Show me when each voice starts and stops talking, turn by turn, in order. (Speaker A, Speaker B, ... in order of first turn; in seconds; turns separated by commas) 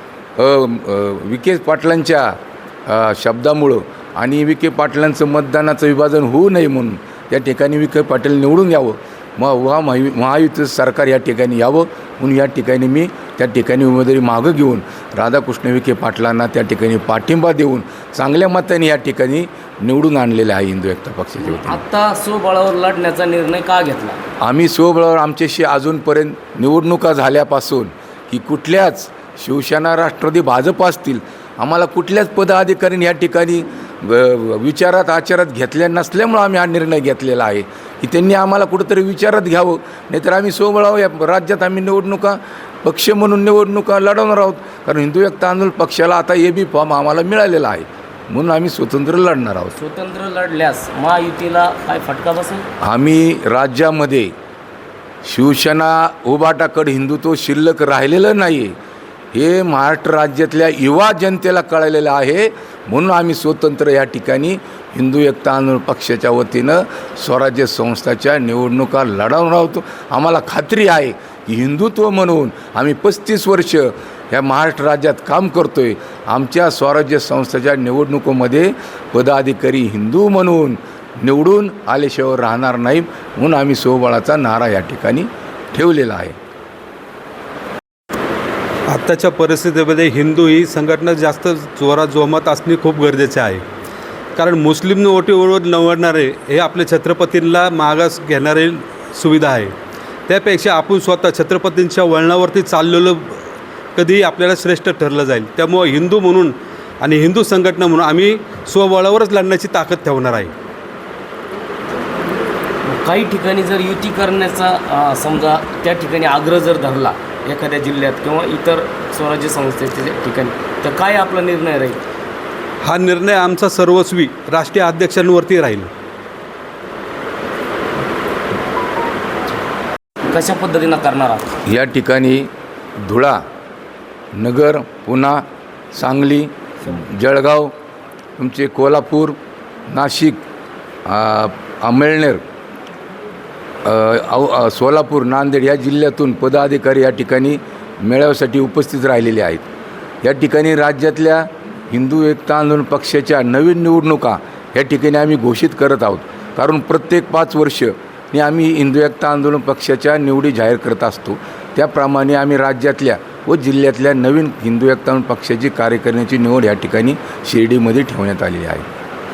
Speaker A: 0.4-21.8, Speaker B: 21.4-24.2, Speaker A: 24.4-49.7, Speaker B: 49.8-52.6, Speaker A: 52.8-54.3, Speaker A: 55.2-58.7, Speaker A: 59.3-86.4, Speaker C: 88.9-93.6, Speaker C: 94.3-99.7, Speaker C: 100.3-110.5, Speaker B: 112.8-122.0, Speaker C: 122.8-125.9, Speaker B: 130.3-131.5, Speaker A: 131.7-132.5, Speaker A: 133.0-133.4, Speaker A: 134.3-135.4, Speaker A: 135.9-137.7, Speaker A: 138.4-139.4, Speaker A: 139.9-140.4, Speaker A: 141.1-142.4, Speaker A: 143.8-149.7, Speaker A: 150.2-168.9